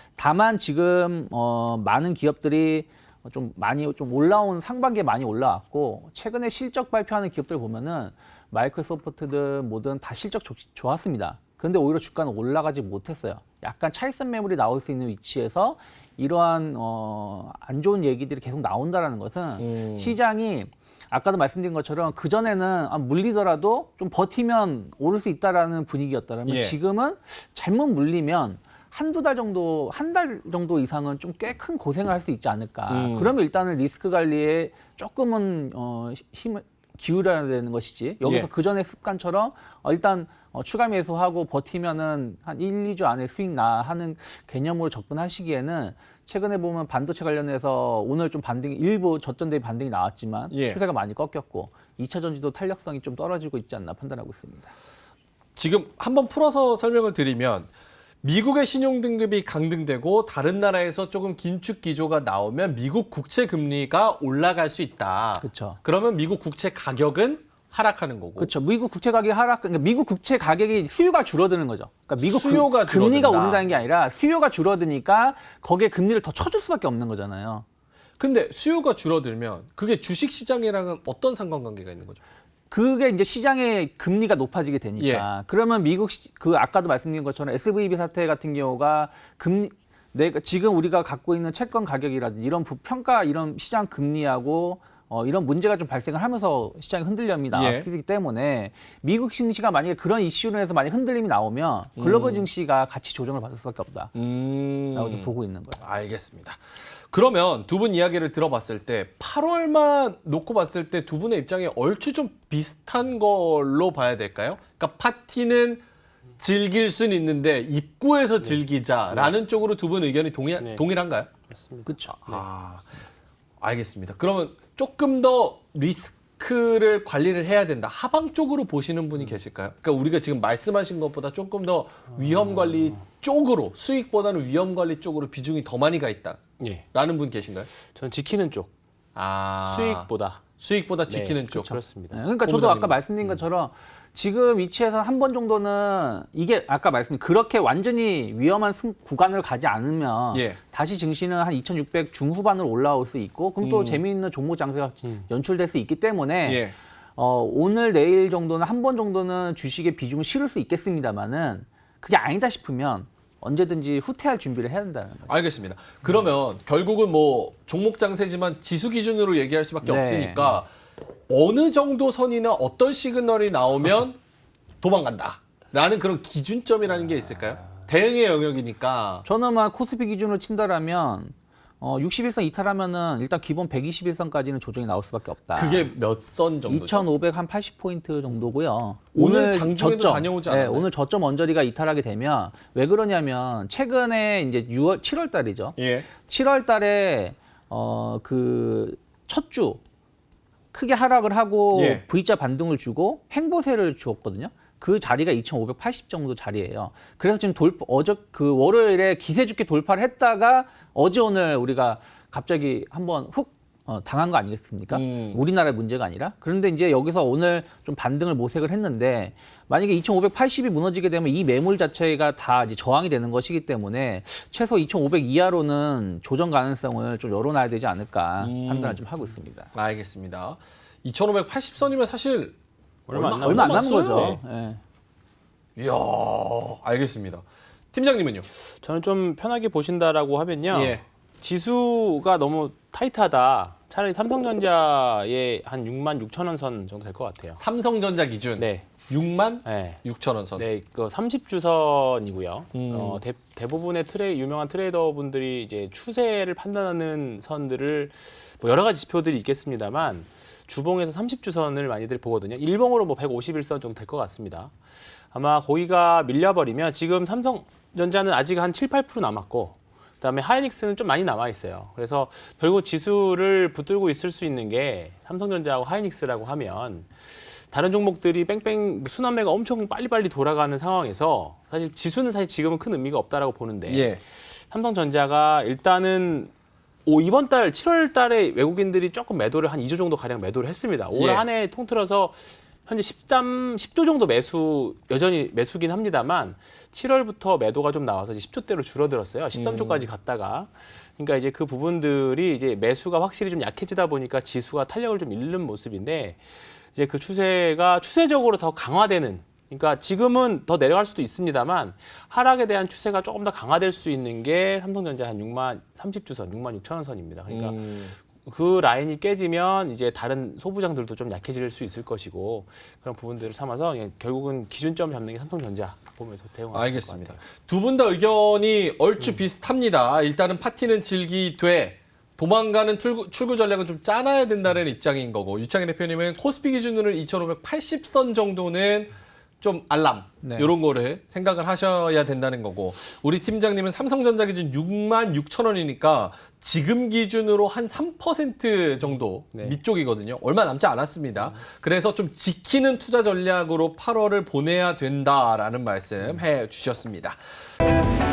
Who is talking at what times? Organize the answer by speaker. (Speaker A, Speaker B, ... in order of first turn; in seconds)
Speaker A: 0.2-54.7, 65.4-65.8, 68.4-77.7, 82.7-104.1, 104.9-105.9, 121.9-122.2, 141.5-165.4, 169.8-170.6, 179.2-185.9, 186.7-199.8, 200.7-229.7, 233.2-234.8, 340.4-340.7
Speaker B: 19.6-20.2, 26.5-26.8, 32.9-33.4, 38.2-38.5, 50.5-50.8, 55.6-57.7, 58.2-68.5, 72.2-73.6, 78.2-82.2, 85.0-85.3, 97.5-97.9, 102.0-102.5, 104.1-115.8, 116.4-121.3, 122.1-122.9, 123.6-136.4, 136.9-137.7, 139.2-141.7, 142.4-143.0, 150.3-150.6, 153.6-154.0, 156.4-156.8, 165.3-170.7, 171.3-174.2, 174.8-179.3, 185.6-187.1, 189.1-190.9, 195.8-196.1, 201.7-202.0, 214.9-215.4, 228.4-229.0, 229.7-232.6, 233.1-234.4, 235.8-238.5, 240.7-241.0, 247.6-250.7, 252.7-253.2, 283.9-284.2, 291.1-291.4, 299.5-300.1, 317.5-318.2, 326.7-357.4
Speaker C: 118.4-119.4, 120.6-122.4, 136.6-136.9, 137.8-138.7, 139.6-140.4, 141.1-142.2, 233.1-234.4, 238.7-247.6, 248.6-248.9, 249.6-250.0, 250.6-264.8, 265.3-286.5, 287.1-327.4, 349.1-349.8